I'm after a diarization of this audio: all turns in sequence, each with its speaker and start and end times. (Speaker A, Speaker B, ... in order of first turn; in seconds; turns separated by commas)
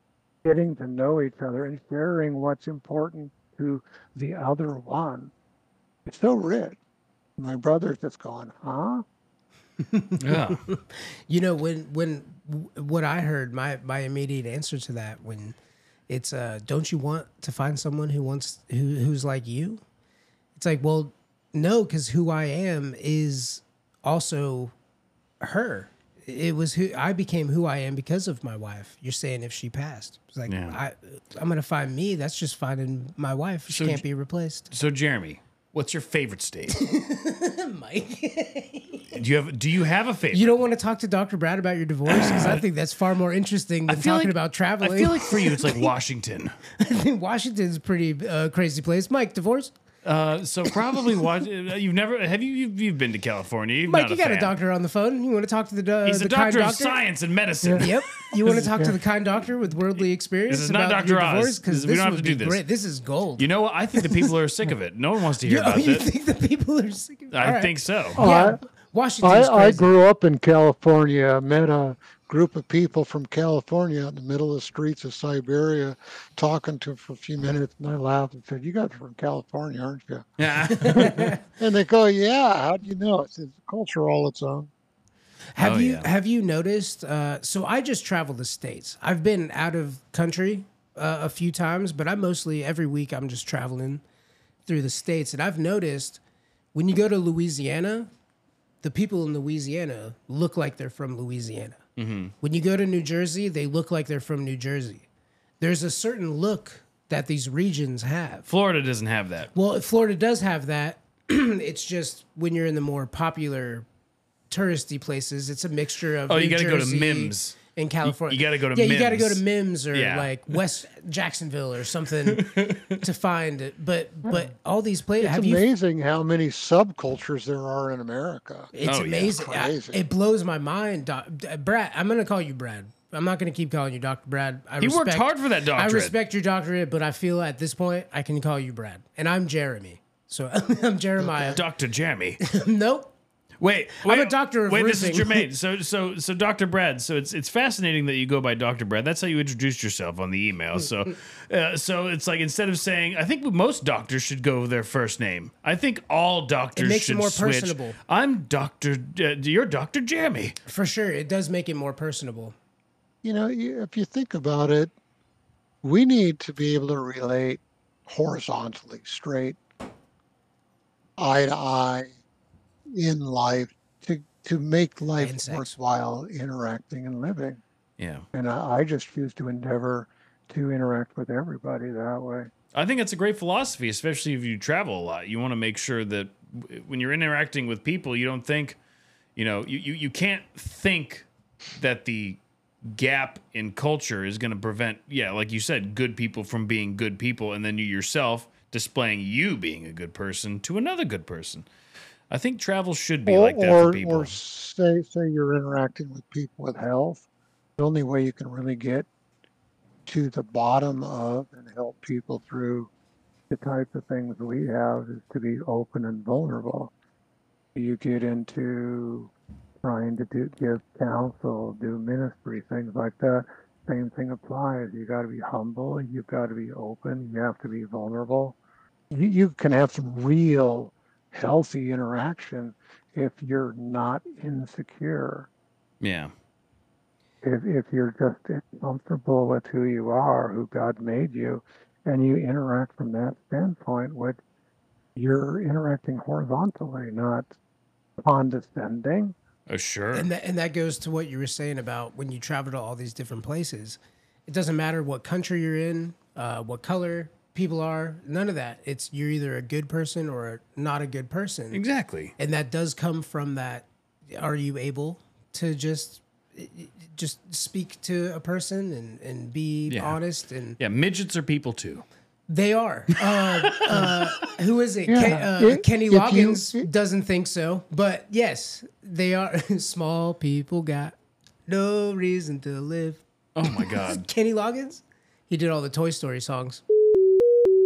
Speaker A: 0.4-5.3, Speaker A: 6.0-6.8, Speaker A: 7.4-9.0, Speaker B: 9.8-15.6, Speaker C: 10.2-10.6, Speaker B: 16.1-19.8, Speaker B: 20.6-24.7, Speaker B: 25.4-34.7, Speaker C: 30.4-30.8, Speaker C: 33.7-34.0, Speaker C: 34.7-36.8, Speaker B: 36.7-39.2, Speaker C: 39.1-40.5, Speaker B: 40.3-45.9, Speaker C: 42.1-42.6, Speaker C: 43.9-46.6, Speaker B: 46.8-49.7, Speaker C: 50.0-54.5, Speaker B: 53.9-57.0, Speaker C: 56.0-58.7, Speaker A: 57.6-57.9, Speaker B: 57.8-64.3, Speaker C: 60.0-62.6, Speaker C: 63.4-66.1, Speaker B: 65.4-69.9, Speaker C: 67.3-68.2, Speaker A: 68.2-68.6, Speaker A: 69.2-84.7, Speaker C: 80.4-81.3, Speaker B: 80.7-81.4, Speaker B: 85.5-94.0, Speaker C: 85.6-86.1, Speaker B: 94.6-96.2, Speaker B: 96.7-98.1, Speaker B: 98.8-101.8, Speaker C: 102.0-102.3, Speaker B: 102.4-105.0, Speaker B: 105.6-108.5, Speaker C: 108.5-109.5, Speaker B: 109.5-113.9, Speaker B: 114.5-125.6, Speaker C: 116.3-120.6, Speaker C: 122.3-123.0, Speaker A: 125.2-128.7, Speaker B: 128.7-141.6, Speaker C: 128.8-129.4, Speaker A: 129.3-130.0, Speaker C: 134.8-136.1, Speaker A: 141.2-141.6, Speaker C: 141.5-142.4, Speaker B: 142.4-143.1, Speaker C: 143.6-160.6, Speaker B: 144.0-145.4, Speaker B: 156.7-158.0, Speaker B: 160.7-162.6, Speaker A: 163.2-164.9, Speaker A: 165.8-169.6, Speaker A: 171.2-172.1, Speaker A: 172.9-177.6, Speaker B: 175.2-175.7, Speaker C: 178.0-178.3, Speaker A: 178.3-182.5, Speaker C: 182.7-188.8, Speaker C: 189.4-191.3, Speaker C: 191.8-201.7, Speaker C: 202.3-204.4, Speaker A: 203.3-207.2, Speaker A: 207.8-209.1, Speaker A: 210.1-212.9, Speaker A: 213.5-216.9, Speaker A: 217.7-228.6, Speaker A: 229.1-235.5, Speaker C: 236.0-236.3, Speaker A: 237.4-244.4, Speaker A: 245.1-247.5, Speaker A: 248.2-249.3, Speaker C: 249.7-250.3, Speaker B: 250.1-261.8, Speaker C: 261.7-262.3, Speaker B: 262.4-270.8, Speaker C: 269.9-270.2, Speaker C: 270.8-272.1, Speaker B: 272.5-281.1, Speaker A: 273.9-274.2, Speaker A: 275.1-276.9, Speaker B: 281.7-286.8, Speaker C: 283.6-284.3